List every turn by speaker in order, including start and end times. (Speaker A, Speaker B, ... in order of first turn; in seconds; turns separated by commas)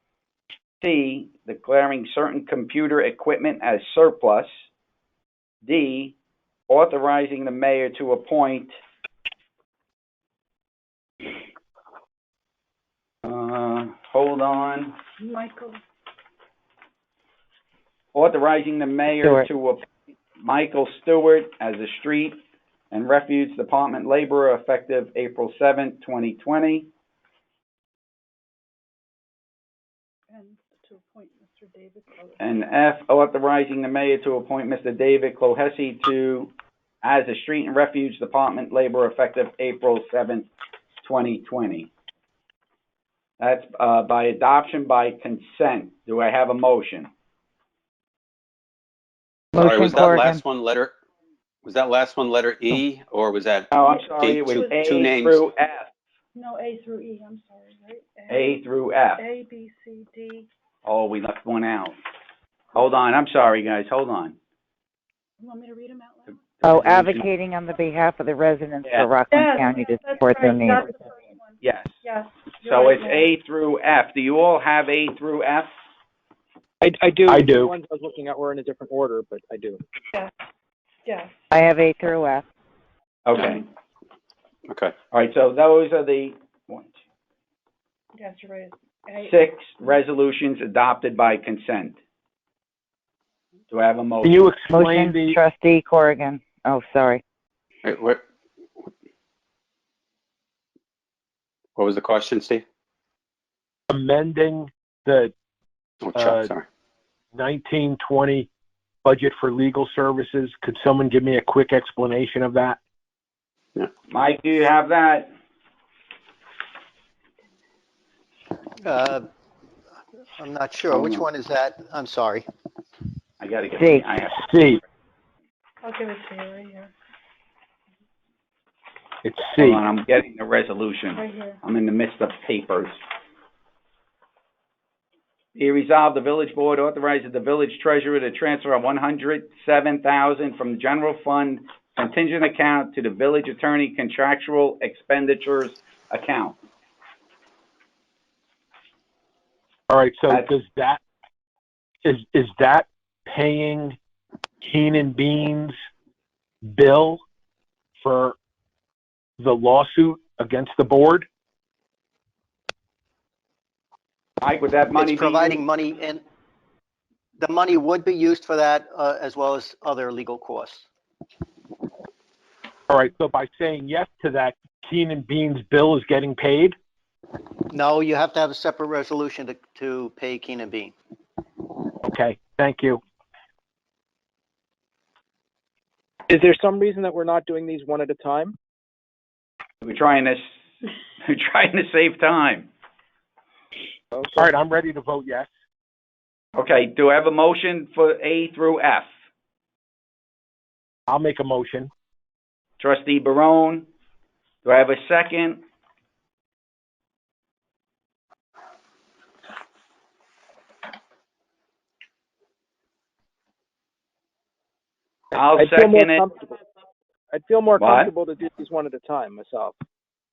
Speaker A: 0.8-4.7, Speaker A: 5.6-6.2, Speaker A: 6.7-8.7, Speaker A: 13.2-14.9, Speaker B: 15.2-15.8, Speaker A: 18.1-19.9, Speaker A: 20.4-22.4, Speaker A: 22.9-26.9, Speaker B: 30.3-32.6, Speaker A: 32.4-36.5, Speaker A: 37.0-40.5, Speaker A: 41.0-41.9, Speaker A: 43.4-47.1, Speaker C: 49.5-50.4, Speaker D: 49.6-51.0, Speaker D: 51.6-55.4, Speaker A: 53.7-55.9, Speaker B: 53.8-55.0, Speaker B: 56.4-58.5, Speaker A: 58.3-59.2, Speaker B: 59.2-60.5, Speaker A: 60.9-62.0, Speaker A: 62.7-64.4, Speaker B: 65.4-66.4, Speaker A: 66.4-67.3, Speaker C: 66.6-70.9, Speaker B: 69.3-73.3, Speaker A: 71.6-71.9, Speaker A: 72.6-75.7, Speaker E: 76.8-79.8, Speaker F: 77.3-77.7, Speaker B: 81.0-81.3, Speaker C: 81.5-82.5, Speaker A: 83.3-83.7, Speaker D: 84.7-84.9, Speaker A: 85.1-86.9, Speaker B: 88.2-89.4, Speaker A: 89.2-92.0, Speaker A: 93.7-94.5, Speaker F: 94.2-95.4, Speaker C: 94.7-97.2, Speaker D: 97.8-98.2, Speaker D: 101.8-102.7, Speaker F: 103.9-105.3, Speaker D: 106.0-106.7, Speaker F: 106.2-106.5, Speaker F: 107.3-108.5, Speaker F: 109.0-112.8, Speaker A: 114.1-115.3, Speaker G: 118.8-119.3, Speaker G: 120.4-122.5, Speaker A: 120.9-121.3, Speaker A: 123.4-124.6, Speaker C: 123.8-124.1, Speaker F: 124.3-124.8, Speaker B: 125.8-126.9, Speaker F: 129.2-129.8, Speaker A: 129.6-133.0, Speaker B: 131.2-131.6, Speaker A: 135.6-146.6, Speaker F: 149.9-151.0, Speaker F: 152.0-154.0, Speaker F: 154.6-155.8, Speaker F: 156.7-157.2, Speaker F: 158.0-158.4, Speaker F: 159.4-161.3, Speaker A: 164.4-165.6, Speaker G: 164.9-166.2, Speaker G: 167.4-170.9, Speaker F: 172.9-176.8, Speaker G: 177.7-180.9, Speaker F: 182.0-183.0, Speaker E: 186.3-188.6, Speaker A: 189.8-190.5, Speaker A: 191.2-192.7, Speaker E: 194.1-194.5, Speaker F: 194.3-195.5, Speaker A: 196.6-199.1, Speaker F: 201.1-201.9, Speaker A: 202.8-203.9, Speaker A: 204.6-205.6, Speaker A: 215.3-216.3, Speaker E: 215.6-216.6, Speaker E: 217.3-219.8, Speaker A: 217.8-218.1